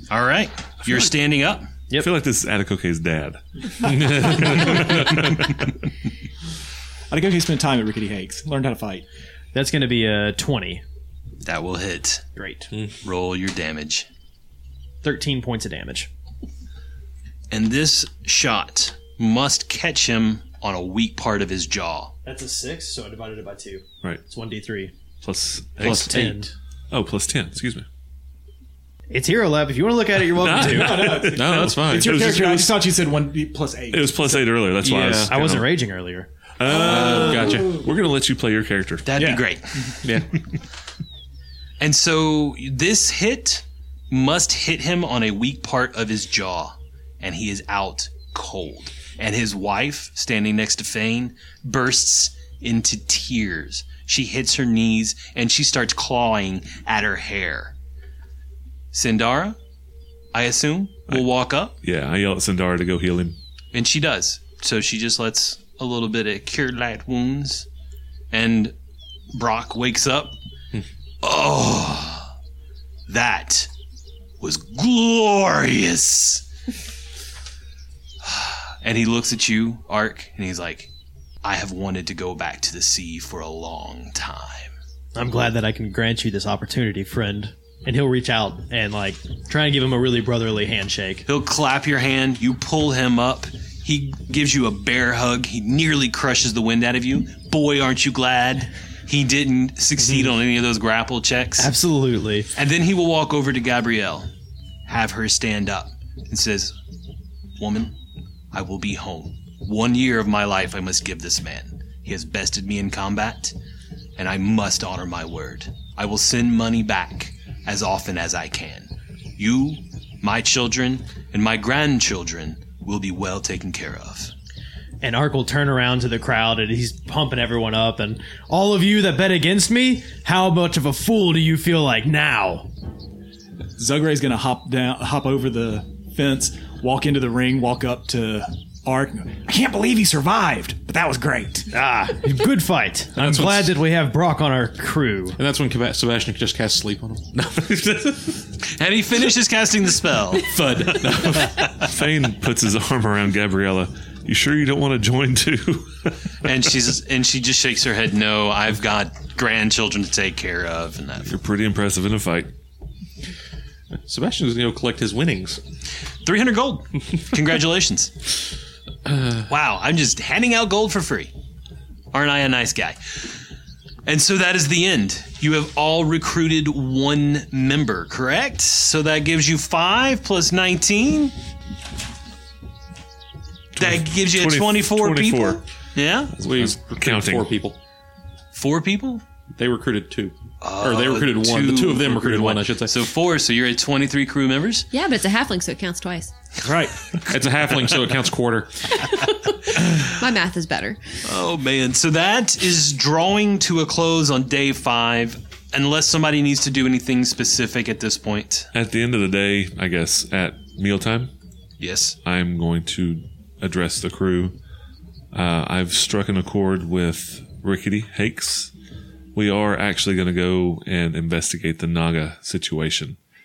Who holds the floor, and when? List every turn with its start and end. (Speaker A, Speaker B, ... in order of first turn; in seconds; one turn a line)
Speaker A: 0.1-1.7
Speaker B: 2.0-5.6
Speaker C: 3.8-5.1
Speaker D: 7.1-9.1
Speaker E: 9.5-10.8
Speaker A: 11.4-12.3
Speaker E: 12.4-12.7
Speaker A: 13.0-14.1
Speaker E: 15.0-16.1
Speaker A: 17.5-22.1
Speaker E: 22.2-24.9
Speaker B: 25.2-26.4
Speaker E: 25.8-26.5
Speaker C: 25.8-26.4
Speaker B: 26.9-27.9
Speaker E: 29.1-31.4
Speaker B: 30.3-32.7
Speaker D: 30.6-34.5
Speaker C: 31.3-32.6
Speaker B: 33.9-35.7
Speaker C: 34.8-35.4
Speaker E: 35.3-36.3
Speaker B: 36.6-39.1
Speaker D: 36.6-37.8
Speaker C: 36.7-37.9
Speaker A: 39.0-40.0
Speaker D: 39.2-40.0
Speaker C: 40.0-40.3
Speaker A: 41.8-57.8
Speaker A: 58.9-59.6
Speaker A: 60.3-61.8
Speaker B: 61.8-63.4
Speaker A: 63.7-67.7
Speaker A: 68.3-68.8
Speaker A: 69.3-70.4
Speaker A: 71.2-72.3
Speaker A: 73.1-73.7
Speaker A: 74.4-76.5
Speaker A: 78.2-80.9
Speaker A: 81.4-84.7
Speaker E: 85.2-91.3
Speaker A: 91.3-101.7
Speaker E: 101.6-102.5
Speaker A: 102.5-104.3
Speaker A: 104.9-106.8
Speaker A: 107.6-108.0
Speaker A: 108.5-113.5
Speaker A: 114.2-124.3
Speaker E: 125.0-132.7
Speaker D: 133.8-141.7
Speaker E: 141.7-145.4
Speaker C: 143.2-143.8
Speaker C: 145.4-148.3
Speaker A: 148.6-150.6
Speaker C: 150.4-151.6
Speaker B: 151.7-156.2
Speaker A: 156.4-161.4
Speaker B: 161.3-162.5
Speaker C: 164.1-165.6
Speaker A: 166.2-168.1
Speaker A: 169.4-171.3
Speaker A: 172.1-173.4
Speaker A: 174.1-181.3
Speaker B: 183.8-185.6
Speaker A: 183.8-186.3
Speaker B: 186.4-187.5
Speaker C: 186.4-187.8
Speaker A: 188.5-189.2
Speaker C: 189.6-193.0
Speaker A: 190.6-194.9
Speaker F: 194.9-196.3
Speaker D: 196.6-196.9
Speaker A: 196.7-197.2
Speaker C: 197.3-199.0
Speaker F: 199.0-201.0
Speaker A: 199.8-200.1
Speaker A: 201.2-208.7
Speaker B: 208.7-211.3
Speaker A: 211.8-212.2
Speaker B: 212.2-214.6
Speaker B: 215.3-218.7
Speaker B: 219.3-223.2